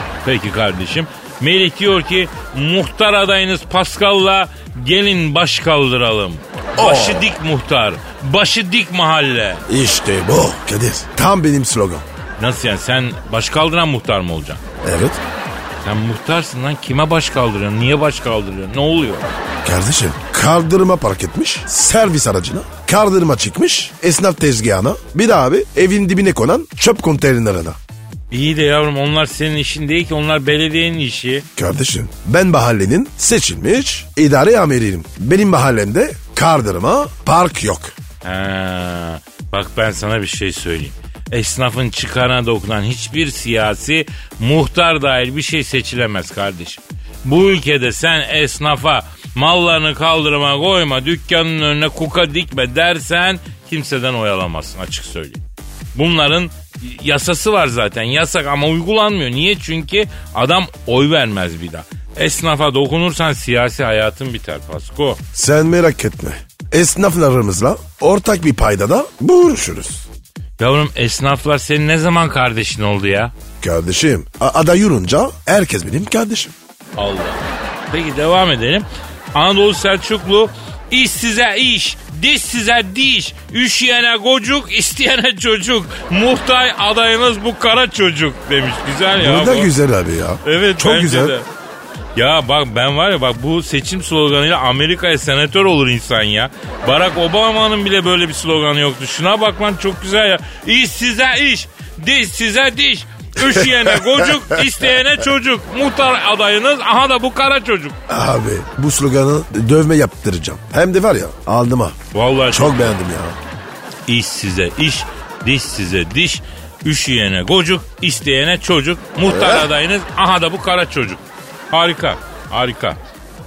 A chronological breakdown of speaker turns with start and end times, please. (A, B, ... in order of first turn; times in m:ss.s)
0:00.2-0:09.6 A
0:06.8-0:07.4 B
0:09.7-0:12.0 B
0:12.4-0:14.6 A
0:14.8-0:15.2 B
0:15.8-0:19.3 A
0:19.6-0:27.8 B
0:28.3-0:31.5 A
0:31.6-0:38.0 B
0:38.2-0:55.4 A
0:56.0-1:05.2 A
1:05.4-1:10.0 B
1:10.6-1:13.3 A
1:13.6-1:16.5 B
1:17.0-1:29.7 A
1:29.2-1:31.4 B
1:30.4-1:31.5 A
1:32.2-1:48.0 A
1:43.5-1:44.6 B
1:48.1-1:52.0 B
1:52.1-1:53.0 A
1:52.5-1:53.4 B
1:54.1-2:03.0 A
1:59.2-1:59.7 B